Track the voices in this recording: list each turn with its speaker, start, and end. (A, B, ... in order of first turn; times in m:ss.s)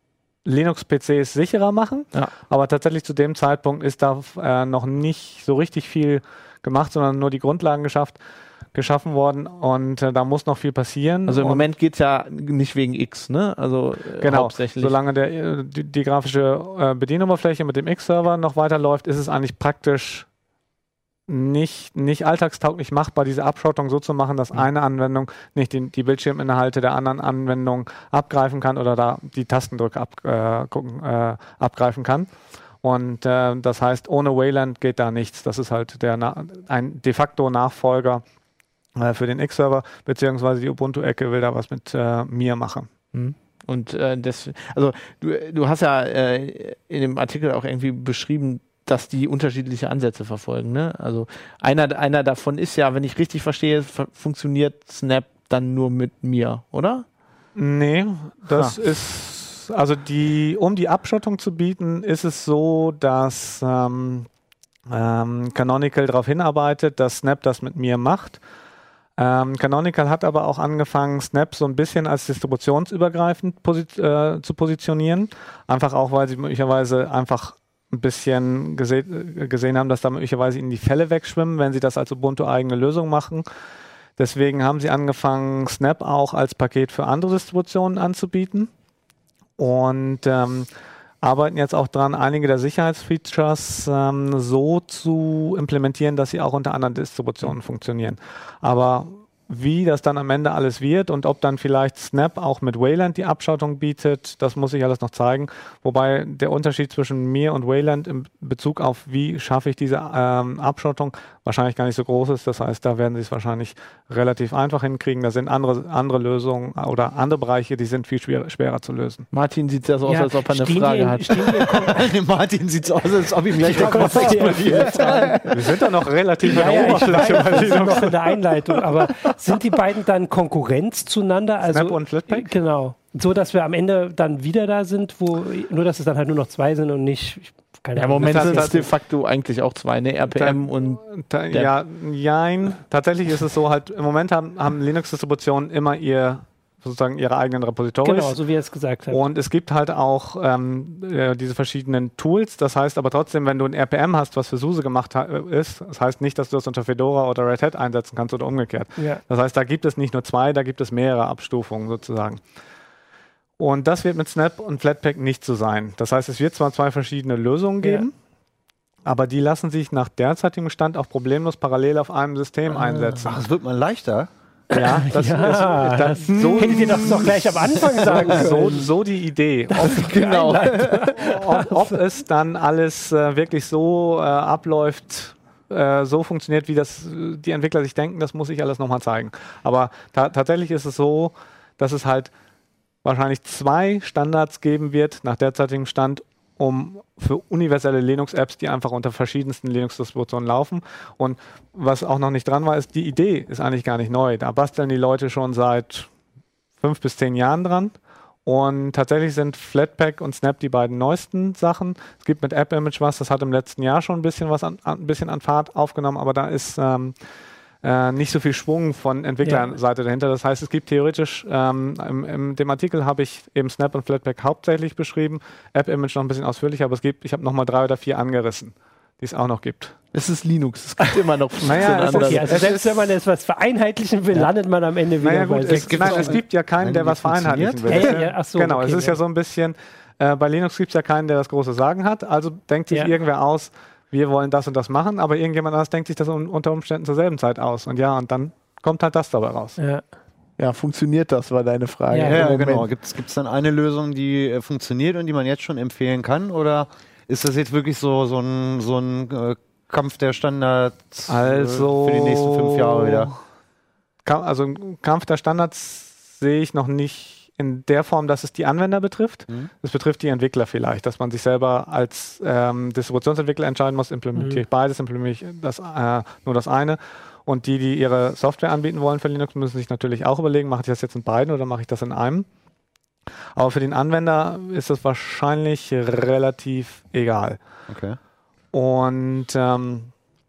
0:00.4-0:08.2 A
0:08.7-0:11.6 A
0:11.3-0:15.0 B
0:14.2-0:20.3 A
0:21.3-0:38.2 A
0:39.0-0:42.9 A
0:43.1-0:57.0 B
0:57.6-1:04.3 A
1:04.9-1:08.4 A
1:09.2-1:23.4 A
1:24.2-1:28.7 A
1:29.6-1:30.7 A
1:31.2-1:59.3 A
1:59.3-2:01.6 B
2:00.1-2:02.0 C
2:01.4-2:05.4 D
2:03.6-2:05.4 C
2:03.7-2:05.5 B
2:05.5-2:08.4 A
2:06.4-2:18.8 C
2:11.6-2:12.5 A
2:17.9-2:21.7 B
2:18.2-2:18.9 A
2:20.4-2:28.4 A
2:28.0-2:29.2 C
2:29.1-2:42.4 A
2:43.6-2:48.1 A
2:49.0-2:53.4 A
2:52.7-2:54.3 D
2:54.7-2:58.9 C
2:54.7-2:57.3 A
2:56.3-2:57.3 B
2:56.4-2:58.2 D
2:58.0-3:12.3 A
2:59.7-3:01.9 C
2:59.8-3:01.4 B
3:13.0-3:26.1 A
3:26.8-3:37.2 A
3:37.8-3:50.0 A
3:39.4-3:39.7 C
3:50.1-3:52.7 B
3:51.6-3:53.0 A
3:51.9-3:56.4 C
3:55.2-4:09.8 A
3:55.6-3:58.2 D
3:57.9-3:59.2 C
4:09.8-4:10.0 C
4:10.6-4:12.9 B
4:12.1-4:12.4 C
4:12.3-4:23.3 D
4:21.3-4:23.4 A
4:24.2-4:42.5 A
4:34.4-4:34.6 C
4:43.6-4:47.6 A
4:47.9-4:48.2 D
4:48.7-4:50.1 A